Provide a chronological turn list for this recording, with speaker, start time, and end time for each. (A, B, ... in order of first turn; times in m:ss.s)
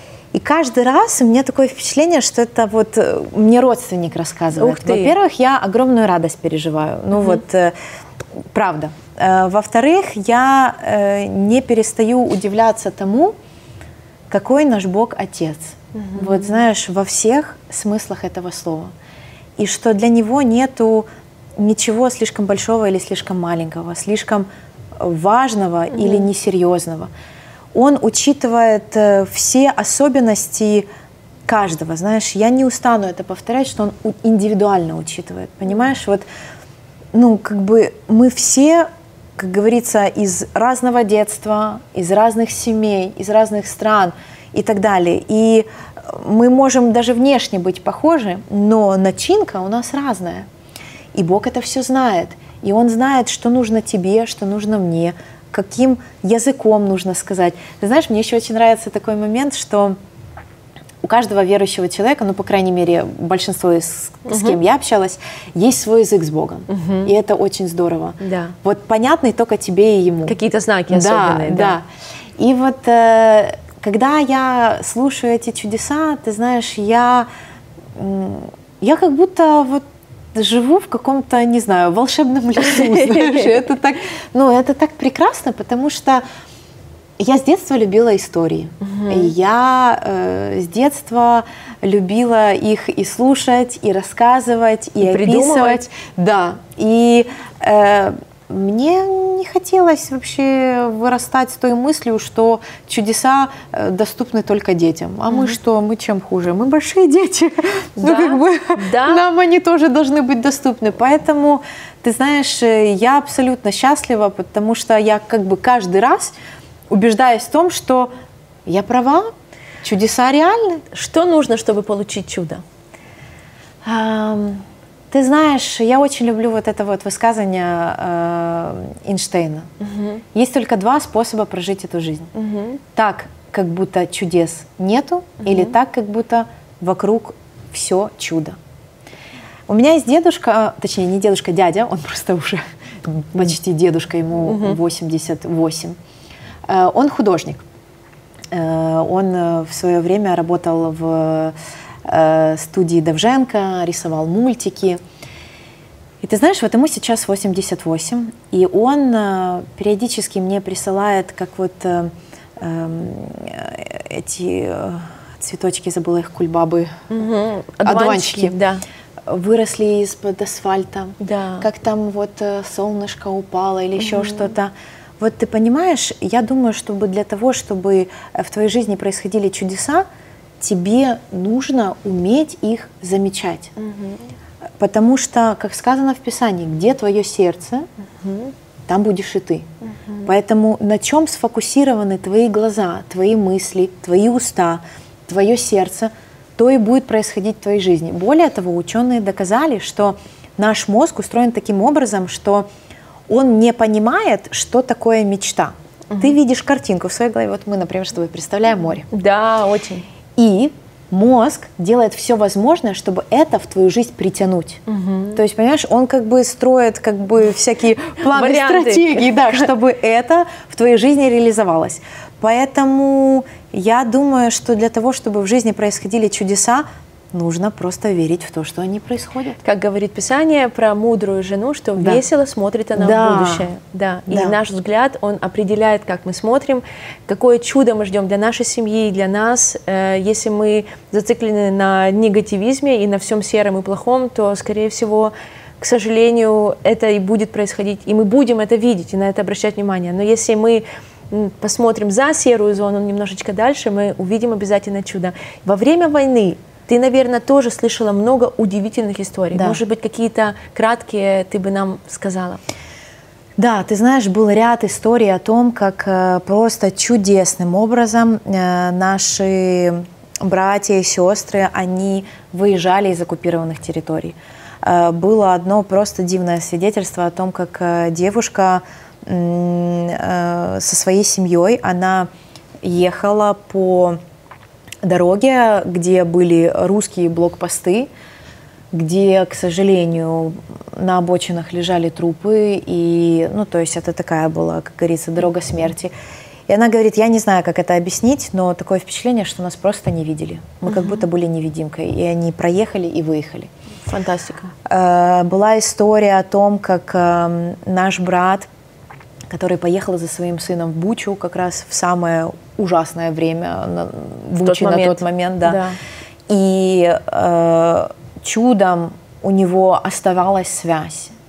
0:00.3-0:07.8 A
0:04.6-0:05.1 B
0:07.2-0:07.4 B
0:08.5-0:13.4 A
0:14.3-0:18.9 A
0:15.9-0:16.6 B
0:19.6-0:24.5 A
0:25.0-0:27.1 A
0:25.9-0:26.3 B
0:27.7-0:30.9 A
0:31.5-0:36.2 A
0:37.1-0:50.5 A
0:51.1-1:00.0 A
1:01.0-1:10.4 A
1:04.3-1:04.6 B
1:06.7-1:07.1 B
1:08.2-1:08.6 B
1:10.3-1:11.8 B
1:10.9-1:11.9 A
1:12.4-1:17.3 A
1:18.0-1:26.2 A
1:22.9-1:23.4 B
1:27.2-1:56.3 A
1:28.8-1:29.3 B
1:35.0-1:35.8 B
1:45.3-1:45.6 B
1:48.0-1:49.2 B
1:56.9-1:58.1 A
1:58.7-1:59.3 A
1:59.8-2:00.8 A
2:00.9-2:02.6 B
2:03.8-2:09.7 A
2:09.8-2:10.2 B
2:10.3-2:12.3 A
2:12.3-2:12.8 B
2:13.0-2:18.6 A
2:15.4-2:15.7 B
2:19.7-2:26.0 A
2:24.4-2:24.8 B
2:26.7-2:27.6 A
2:28.5-2:35.0 A
2:36.2-2:47.1 A
2:47.1-2:48.8 B
2:47.8-2:48.6 A
2:49.3-3:00.1 A
2:51.2-2:51.7 B
2:54.0-2:54.5 B
3:00.6-3:03.7 A
3:03.8-3:04.2 B
3:04.8-3:07.9 A
3:08.2-3:08.5 B
3:08.9-3:09.7 A
3:09.8-3:10.3 B
3:10.2-3:22.7 A
3:23.3-3:29.1 A
3:26.1-3:26.4 B
3:29.1-3:30.0 B
3:30.4-3:34.8 A
3:34.9-3:35.4 B
3:35.4-3:49.6 A
3:38.2-3:39.7 B
3:49.6-4:22.6 B
3:53.0-3:53.7 A
3:54.3-3:54.6 A
4:19.5-4:19.8 A
4:23.6-4:42.3 A
4:42.8-4:44.2 A
4:45.0-4:48.1 A
4:48.9-4:56.1 A
4:56.7-5:03.7 A
5:00.9-5:01.2 B
5:04.1-5:04.7 B
5:04.9-5:08.7 A
5:09.5-5:15.8 A
5:14.6-5:16.0 B
5:16.5-5:21.3 A